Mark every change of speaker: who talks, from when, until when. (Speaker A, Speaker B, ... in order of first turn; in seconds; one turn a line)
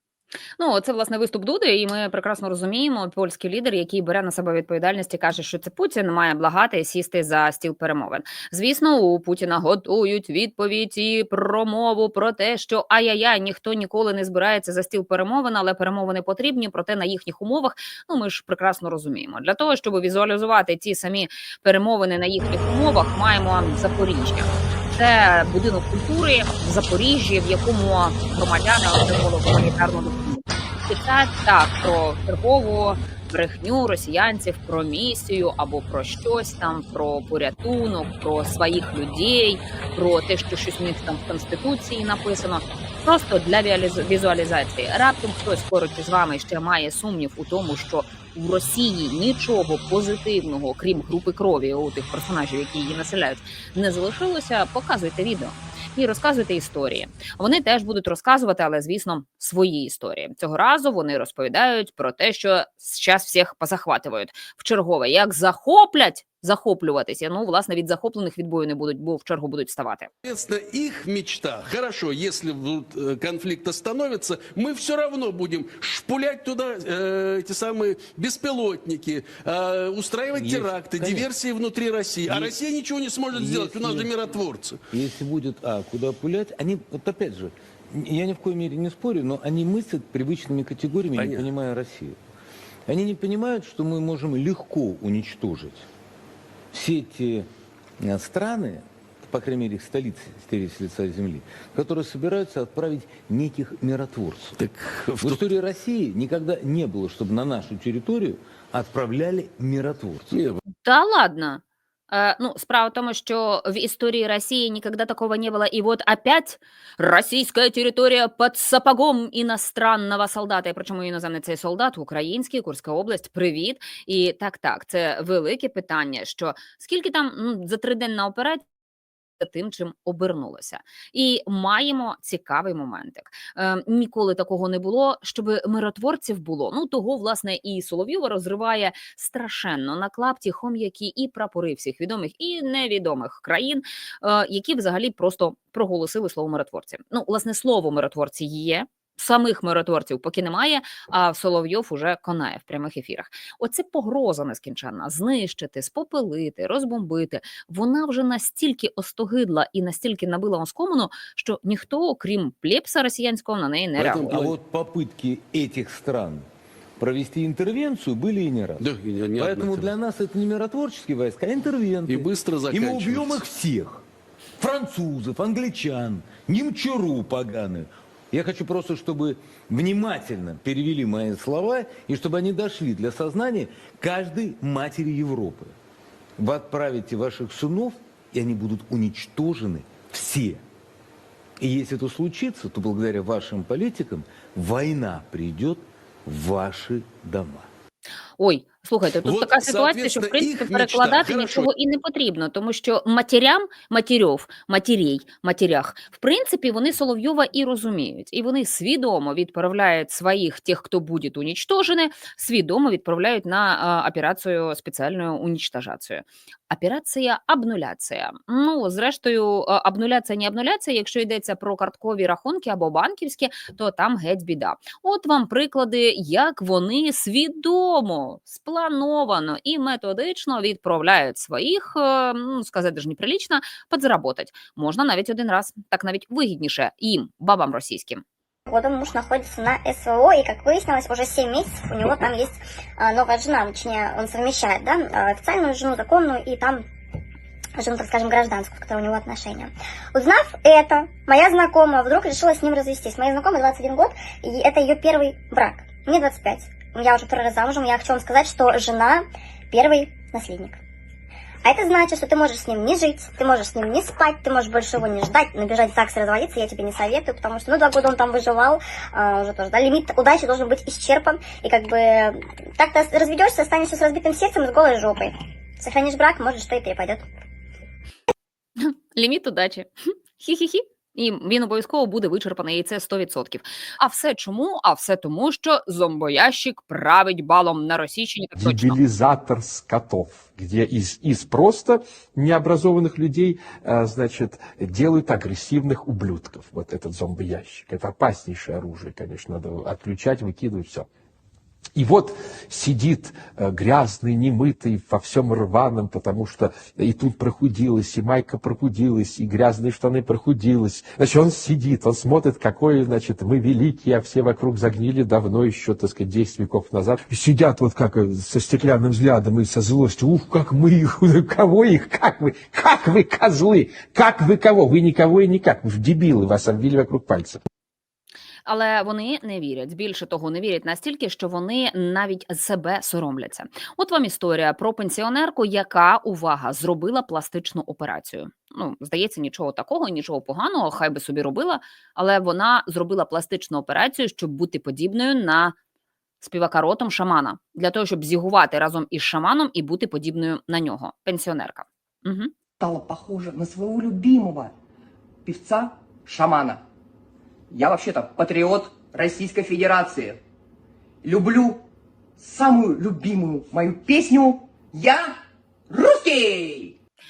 Speaker A: 0.6-70.1
Speaker B: 70.2-84.8
Speaker C: 80.3-81.3
Speaker C: 82.2-82.6
Speaker C: 83.3-84.1
Speaker C: 84.9-92.2
Speaker B: 91.1-91.5
Speaker C: 92.9-95.8
Speaker C: 96.7-97.5
Speaker C: 98.0-104.6
Speaker B: 104.6-105.5
Speaker C: 105.2-110.4
Speaker B: 110.3-110.6
Speaker A: 110.8-128.6
Speaker A: 129.4-164.4
Speaker B: 164.0-164.5
Speaker C: 164.3-166.4
Speaker C: 167.0-174.0
Speaker B: 168.8-169.9
Speaker B: 172.1-173.4
Speaker C: 174.6-185.7
Speaker C: 186.4-190.6
Speaker C: 191.6-197.7
Speaker A: 198.4-238.2
Speaker B: 199.2-201.7
Speaker D: 238.7-246.8
Speaker D: 247.8-260.8
Speaker D: 261.6-277.2
Speaker A: 278.8-289.0
Speaker E: 288.6-301.1
Speaker E: 301.9-327.6
Speaker A: 328.6-345.7
Speaker A: 346.4-352.5
Speaker F: 352.8-354.7
Speaker F: 355.4-356.8
Speaker F: 357.7-360.4
Speaker F: 361.2-361.8
Speaker F: 362.4-365.4
Speaker F: 365.9-366.9